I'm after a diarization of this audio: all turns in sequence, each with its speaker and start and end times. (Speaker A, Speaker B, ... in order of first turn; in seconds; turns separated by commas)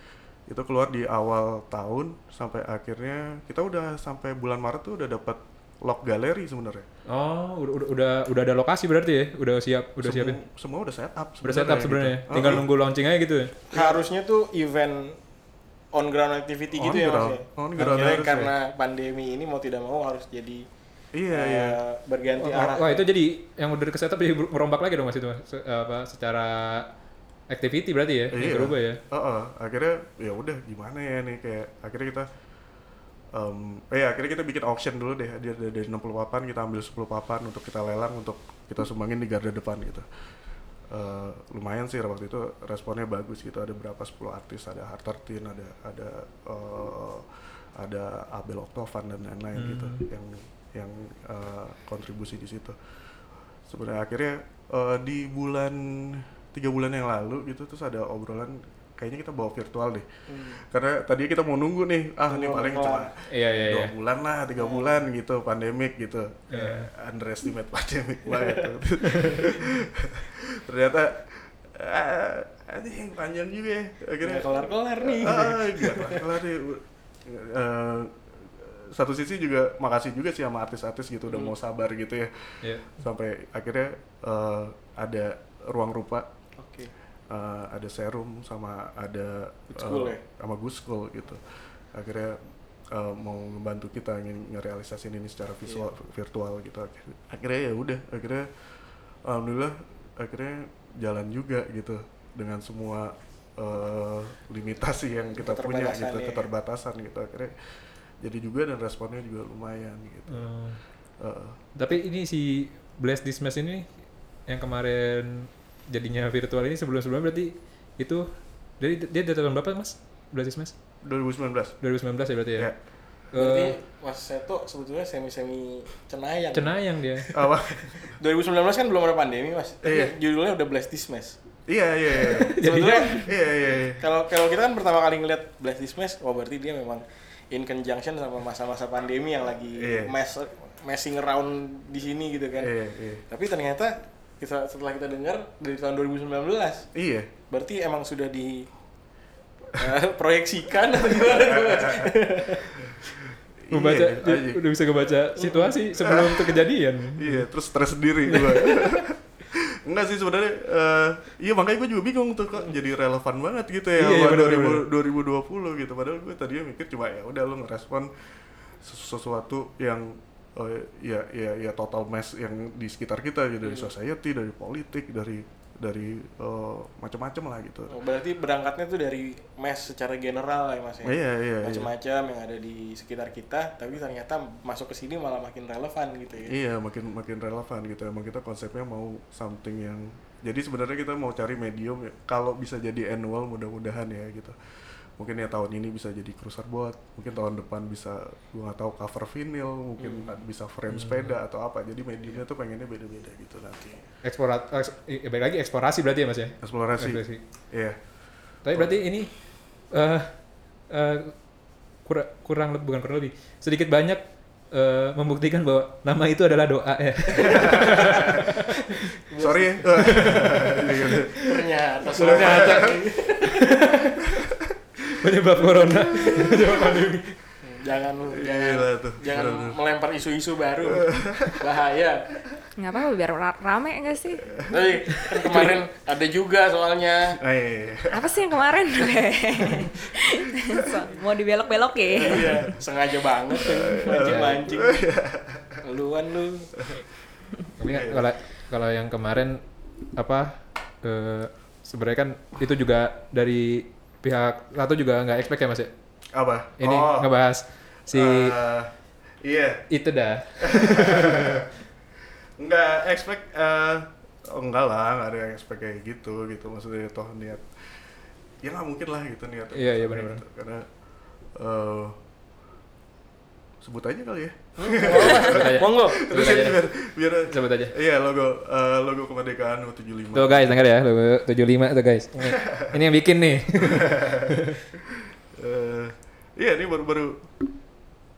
Speaker A: 0.5-6.9, Speaker B: 7.1-10.4, Speaker A: 10.0-12.7, Speaker B: 11.4-13.5, Speaker C: 13.7-15.2, Speaker C: 15.9-20.6, Speaker A: 16.7-18.5, Speaker A: 21.1-21.8, Speaker C: 21.3-23.0, Speaker B: 22.4-26.9, Speaker B: 27.5-29.0, Speaker A: 28.3-32.3, Speaker A: 33.3-40.1, Speaker A: 40.9-52.8, Speaker B: 49.5-50.0, Speaker A: 53.6-86.3, Speaker C: 60.3-60.6, Speaker C: 62.3-63.1, Speaker B: 63.3-63.9, Speaker C: 64.6-64.9, Speaker B: 66.5-66.9, Speaker C: 68.3-68.6, Speaker C: 74.2-76.3, Speaker B: 82.6-82.9, Speaker C: 86.6-86.9, Speaker A: 87.3-110.5, Speaker C: 89.7-90.2, Speaker C: 95.7-95.9, Speaker C: 105.4-106.5, Speaker B: 110.3-110.8, Speaker A: 111.1-111.6, Speaker B: 111.8-120.7, Speaker A: 121.0-121.8, Speaker B: 121.8-123.7, Speaker C: 123.3-127.4, Speaker B: 126.5-127.3, Speaker A: 127.3-128.2, Speaker C: 128.1-131.4, Speaker A: 129.8-130.1, Speaker A: 131.7-134.0, Speaker C: 132.1-146.9, Speaker B: 132.3-133.3, Speaker A: 139.8-140.1, Speaker A: 142.6-143.2, Speaker A: 146.9-147.3, Speaker C: 147.5-148.7, Speaker C: 149.7-152.9, Speaker A: 151.1-152.9, Speaker A: 153.6-154.6, Speaker B: 153.7-157.4, Speaker C: 155.4-155.8, Speaker A: 156.0-178.0, Speaker B: 158.3-159.0, Speaker B: 163.9-164.8, Speaker C: 173.6-173.9, Speaker C: 177.9-186.5, Speaker A: 181.0-181.9, Speaker A: 186.4-203.9, Speaker C: 200.0-200.4, Speaker B: 200.9-201.3, Speaker C: 203.8-204.1, Speaker B: 204.2-207.4, Speaker A: 206.6-209.0, Speaker B: 208.6-218.6, Speaker C: 217.4-218.6, Speaker A: 217.5-218.2, Speaker C: 219.3-224.0, Speaker A: 219.4-221.4, Speaker B: 220.0-221.0, Speaker A: 222.1-223.0, Speaker B: 222.2-224.2, Speaker A: 224.4-224.7, Speaker B: 225.1-227.3, Speaker A: 225.8-226.7, Speaker C: 226.1-226.7, Speaker C: 227.6-232.3, Speaker A: 228.3-229.8, Speaker A: 231.0-231.6, Speaker D: 232.8-234.6, Speaker C: 234.7-237.4, Speaker A: 235.3-235.7, Speaker A: 237.4-238.5, Speaker D: 238.1-242.7, Speaker C: 242.1-245.0, Speaker A: 242.3-242.7, Speaker A: 243.5-245.8, Speaker B: 244.2-244.6, Speaker C: 245.8-246.8, Speaker B: 247.8-255.9, Speaker A: 247.9-248.3, Speaker A: 256.3-257.3, Speaker B: 256.8-258.6, Speaker A: 258.1-259.8, Speaker B: 259.9-261.7, Speaker A: 260.6-261.7, Speaker A: 262.6-270.9, Speaker B: 269.7-270.4, Speaker A: 271.4-272.2, Speaker A: 273.8-280.8, Speaker C: 274.8-276.3, Speaker B: 275.3-277.9, Speaker B: 280.3-284.8, Speaker A: 282.4-282.9, Speaker A: 283.8-287.5